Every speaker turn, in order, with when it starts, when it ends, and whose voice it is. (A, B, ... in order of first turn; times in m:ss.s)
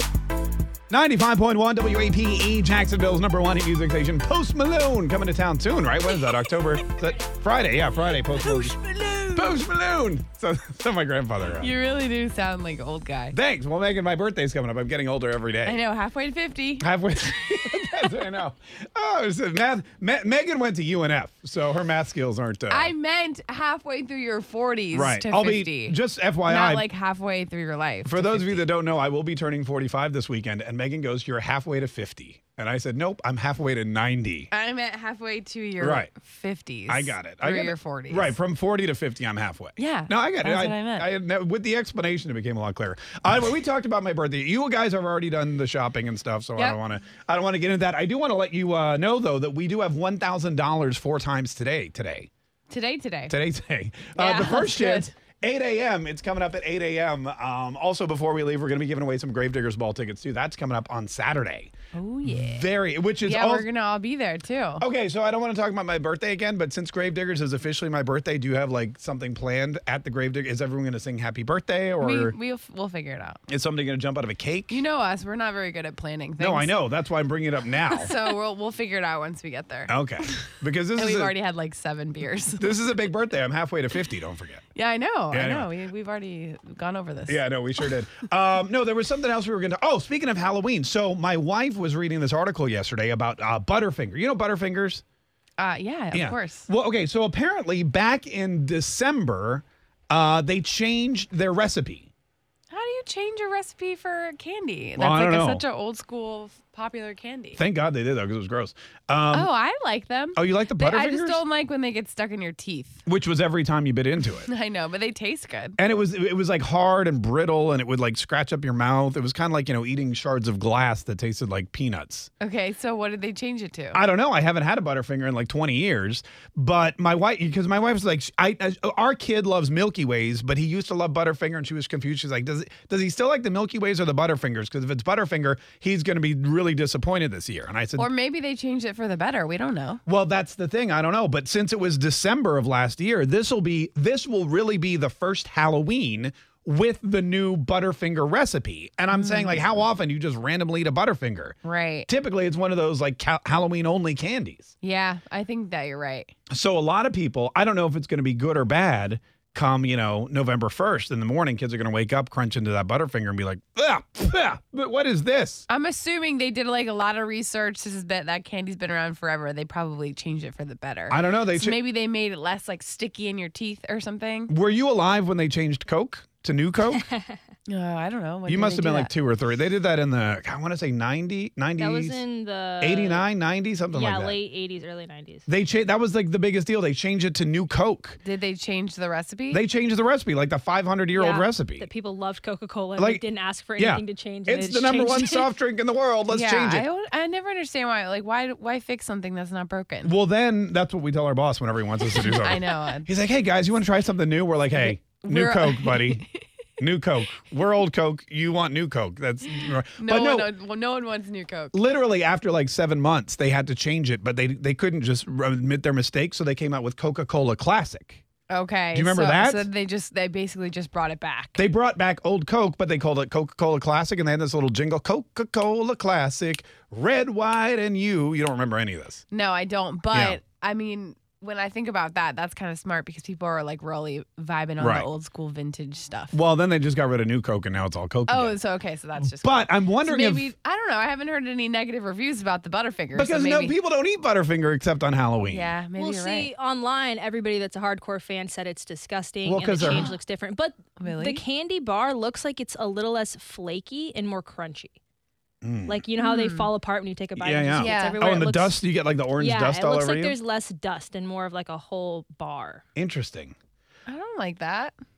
0:00.9-0:08.8 A
0:08.3-0:09.6 B
0:09.3-0:11.7 A
0:11.6-0:13.3 B
0:13.3-0:15.8 A
0:15.6-0:16.8 B
0:16.8-0:22.9 A
0:22.7-0:28.6 B
0:24.9-0:26.8 A
0:28.0-0:34.5 A
0:34.5-0:38.4 B
0:35.8-0:36.1 A
0:36.9-0:52.3 A
0:39.8-0:41.1 B
0:52.7-0:53.3 B
0:53.3-1:01.7 A
0:54.2-0:55.1 B
1:01.9-1:02.6 B
1:02.2-1:03.7 A
1:03.2-1:04.8 B
1:04.8-1:12.4 A
1:12.0-1:13.4 B
1:13.5-1:14.8 A
1:14.7-1:16.7 B
1:16.4-1:18.1 A
1:17.9-1:20.0 B
1:19.9-1:21.3 A
1:20.9-1:22.8 B
1:22.6-1:24.6 A
1:24.7-1:27.4 B
1:25.3-1:25.7 A
1:27.3-1:35.0 A
1:35.6-1:36.7 B
1:36.1-1:42.1 A
1:42.7-1:47.6 B
1:45.0-1:45.6 A
1:47.6-1:49.5 A
1:49.3-1:53.0 B
1:50.4-1:51.4 A
1:53.0-1:54.5 A
1:54.4-1:55.8 B
1:55.8-2:02.3 A
2:02.4-2:04.0 B
2:03.9-2:18.1 A
2:18.0-2:20.0 B
2:20.0-2:34.7 A
2:29.1-2:29.8 B
2:31.6-2:32.1 B
2:34.8-2:36.3 B
2:36.5-2:45.6 A
2:45.7-2:54.5 B
2:51.1-2:51.8 A
2:54.5-2:57.0 A
2:57.7-2:59.1 B
2:58.5-3:02.2 A
3:01.8-3:03.3 C
3:02.8-3:04.4 A
3:03.9-3:05.4 C
3:05.5-3:08.2 A
3:08.2-3:09.6 B
3:09.5-3:11.9 A
3:11.1-3:15.5 C
3:13.0-3:13.2 A
3:13.8-3:16.9 A
3:16.3-3:20.2 B
3:20.0-3:26.2 A
3:22.0-3:23.1 B
3:24.7-3:26.4 B
3:26.8-3:30.5 A
3:30.0-3:31.8 B
3:31.7-3:38.2 A
3:38.5-3:41.6 B
3:38.9-3:39.7 A
3:41.6-3:49.2 A
3:49.3-3:56.4 B
3:50.1-3:50.4 A
3:54.8-3:55.1 A
3:56.3-3:58.6 A
3:58.3-4:03.8 B
3:59.2-4:00.5 A
4:03.1-4:05.7 A
4:05.4-4:06.5 B
4:06.0-4:15.0 C
4:09.4-4:10.1 A
4:09.8-4:10.1 B
4:11.0-4:11.4 B
4:15.6-4:16.0 A
4:15.8-4:18.8 C
4:16.2-4:16.7 B
4:17.4-4:20.4 A
4:17.8-4:18.2 B
4:19.4-4:22.8 C
4:23.0-4:23.5 A
4:24.1-4:24.9 B